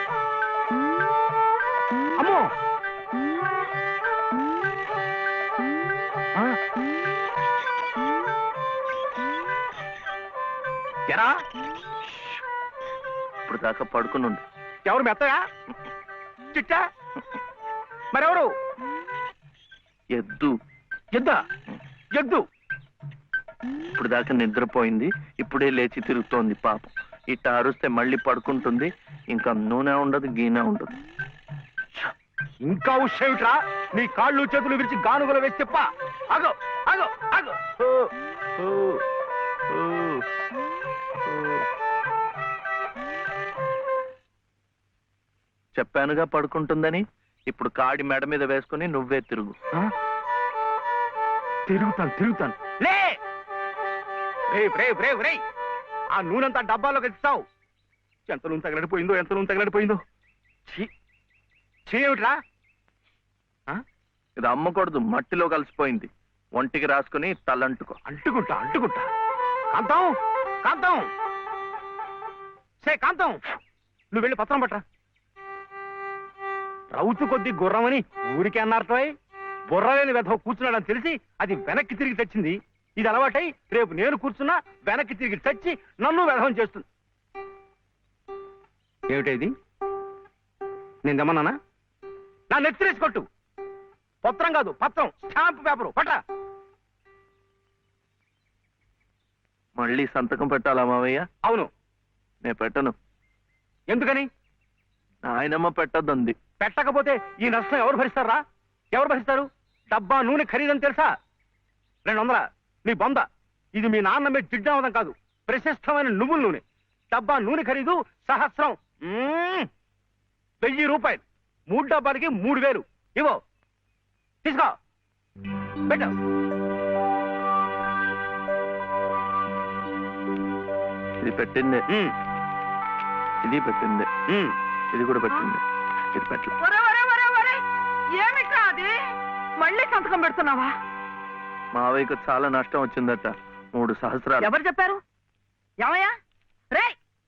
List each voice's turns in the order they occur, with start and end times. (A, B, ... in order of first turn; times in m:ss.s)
0:02.2-0:02.5 A
0:13.4-0:14.4 B
0:14.8-0:15.4 A
0:16.5-0:16.8 A
0:18.1-0:18.5 A
0:20.1-0:20.5 B
0:22.2-0:22.4 A
0:23.9-0:30.9 B
0:32.6-0:37.8 A
0:45.7-0:49.6 B
0:51.7-0:53.2 A
0:54.5-0:55.4 A
0:56.2-0:57.4 A
0:58.3-1:00.0 A
1:01.9-1:02.4 A
1:04.4-1:08.0 B
1:08.1-1:09.0 A
1:09.7-1:10.1 A
1:10.6-1:11.0 A
1:12.8-1:13.4 A
1:14.1-1:14.8 A
1:16.9-1:19.1 A
1:19.7-1:26.8 A
1:29.1-1:29.5 A
1:31.0-1:31.6 A
1:32.5-1:33.2 A
1:34.2-1:36.2 A
1:39.8-1:41.2 B
1:42.4-1:42.9 B
1:43.9-1:44.3 A
1:45.3-1:46.4 B
1:46.6-1:48.4 A
1:48.9-1:51.1 A
1:52.0-1:59.7 A
2:00.6-2:03.4 A
2:04.4-2:04.7 A
2:05.9-2:06.1 A
2:11.2-2:11.8 B
2:13.4-2:14.1 B
2:14.3-2:14.5 A
2:14.9-2:15.6 B
2:16.1-2:16.5 B
2:16.6-2:17.6 C
2:18.2-2:19.0 C
2:19.6-2:20.7 C
2:21.7-2:24.5 B
2:24.4-2:25.0 C
2:25.8-2:26.1 C